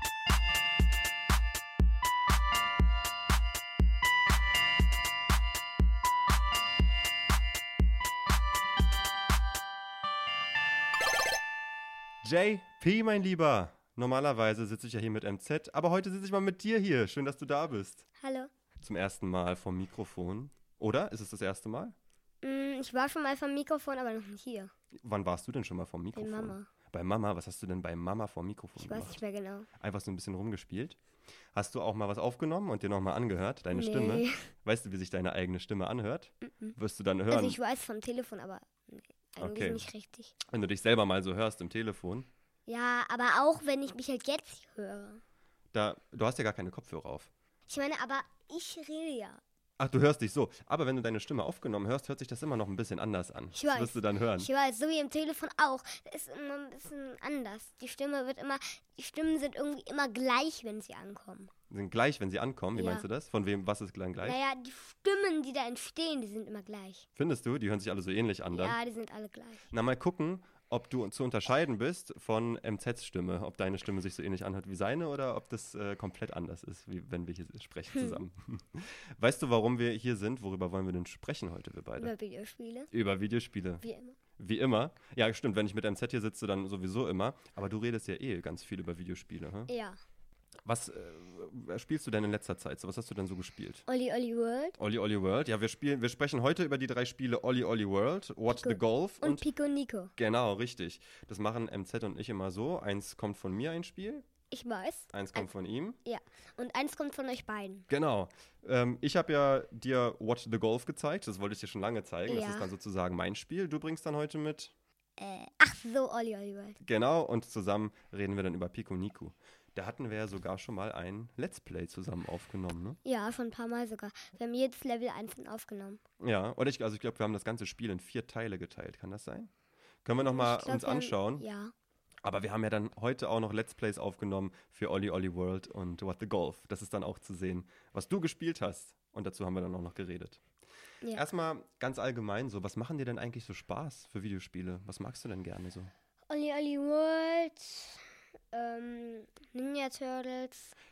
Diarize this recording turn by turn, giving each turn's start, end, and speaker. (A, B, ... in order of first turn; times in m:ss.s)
0:12.2-0:18.0 A
0:18.2-0:18.5 B
0:18.8-0:22.0 A
0:22.4-0:24.7 B
0:25.0-0:29.2 A
0:26.2-0:26.7 B
0:28.8-0:29.7 B
0:29.8-0:31.0 A
0:31.5-0:37.6 A
0:33.7-0:34.4 B
0:36.4-0:36.8 B
0:37.3-0:40.3 B
0:39.4-0:39.9 A
0:40.5-0:42.3 A
0:42.7-0:45.2 B
0:45.7-0:47.3 A
0:47.7-0:49.4 B
0:49.8-0:54.5 A
0:53.5-1:01.5 B
1:01.7-1:04.4 A
1:02.7-1:03.0 B
1:04.2-1:07.0 B
1:07.2-1:08.8 A
1:08.5-1:09.7 B
1:09.7-1:22.1 A
1:17.9-1:18.2 B
1:22.0-1:22.9 B
1:22.9-1:23.8 A
1:23.8-1:24.2 B
1:24.4-1:29.7 A
1:29.7-1:30.0 B
1:30.6-1:33.8 A
1:33.9-1:34.8 B
1:34.8-1:39.4 A
1:38.5-1:40.1 B
1:40.2-1:44.2 A
1:44.5-1:45.5 B
1:45.1-1:46.0 A
1:46.0-1:47.8 B
1:47.9-1:54.7 A
1:52.3-1:52.7 B
1:55.2-1:56.8 B
1:56.8-2:03.0 A
2:03.0-2:06.0 B
2:06.2-2:09.5 A
2:10.0-2:11.4 A
2:10.2-2:11.7 B
2:12.2-2:20.4 A
2:21.1-2:25.9 A
2:26.3-2:30.7 B